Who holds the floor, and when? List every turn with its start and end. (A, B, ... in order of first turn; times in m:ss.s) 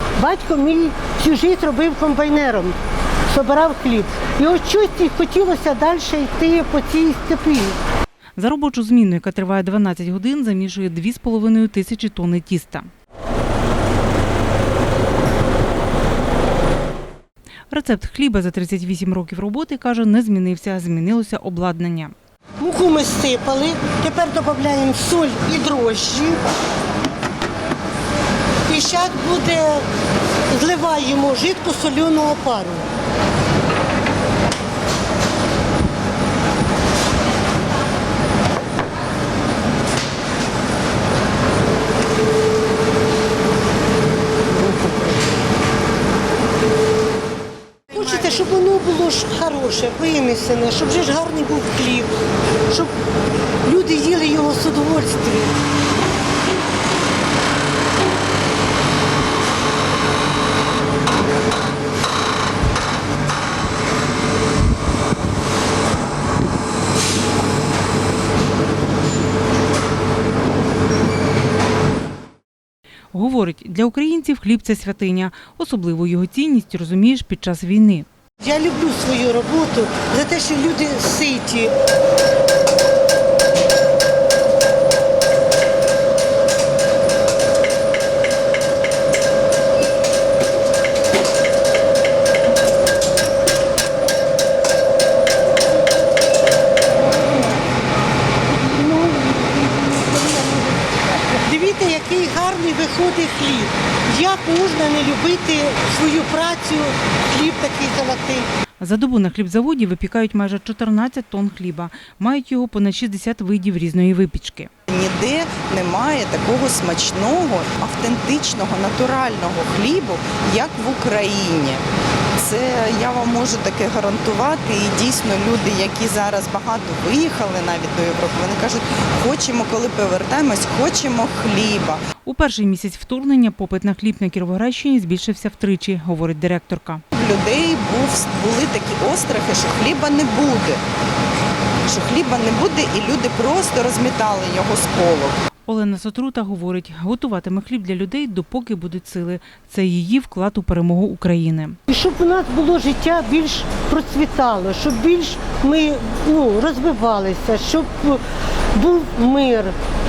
0:00.2-0:02.8 A
0:03.3-0:07.8 A
0:08.4-0:12.9 B
0:17.7-0:22.1 B
0:22.6-0:26.4 A
0:28.7-0:29.8 A
0:30.5-0:32.8 A
0:47.9-0:52.1 A
0:53.6-0:55.5 A
1:13.1-1:18.1 B
1:18.4-1:21.7 A
1:38.6-1:48.5 A
1:48.8-1:54.7 B
1:54.9-2:01.8 C
2:02.4-2:12.0 C
2:12.2-2:17.0 B
2:17.1-2:20.8 C
2:21.9-2:25.3 C
2:25.7-2:31.8 B
2:31.9-2:38.2 A
2:38.7-2:39.7 A